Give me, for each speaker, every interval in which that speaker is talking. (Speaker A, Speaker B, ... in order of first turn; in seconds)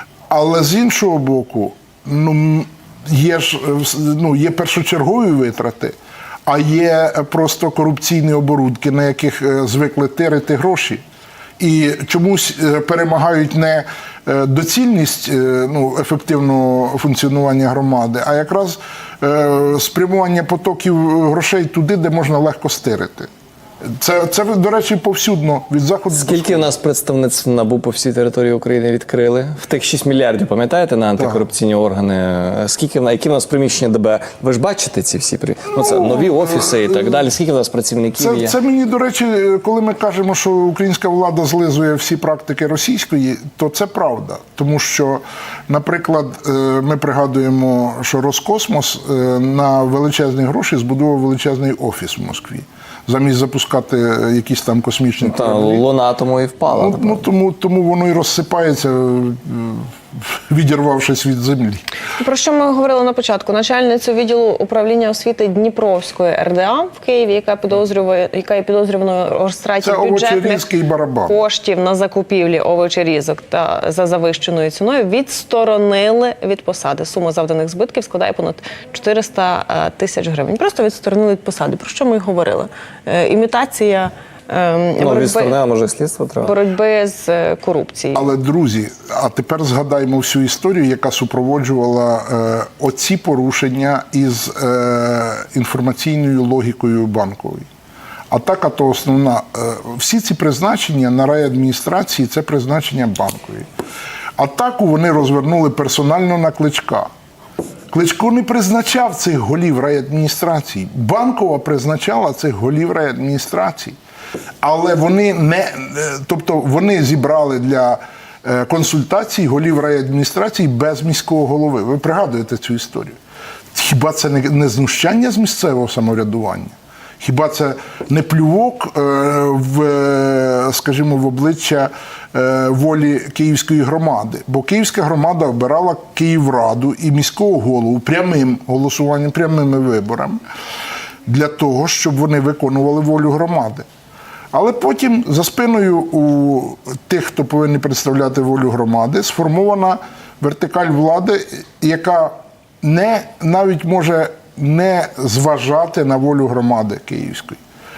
Speaker A: 0.3-6.0, 6.5-11.0, 11.6-23.3, 24.0-26.7, 31.2-31.4, 35.8-37.3, 38.2-55.9, 56.7-61.8, 69.8-71.4, 88.1-97.7, 98.3-103.7, 104.4-107.1, 107.9-114.0, 114.6-123.2, 123.7-140.4, 141.3-143.8, 144.5-157.6
Speaker B: 26.1-38.5, 55.2-57.2, 85.0-86.6
Speaker C: 62.2-70.7, 71.3-85.5, 86.4-88.3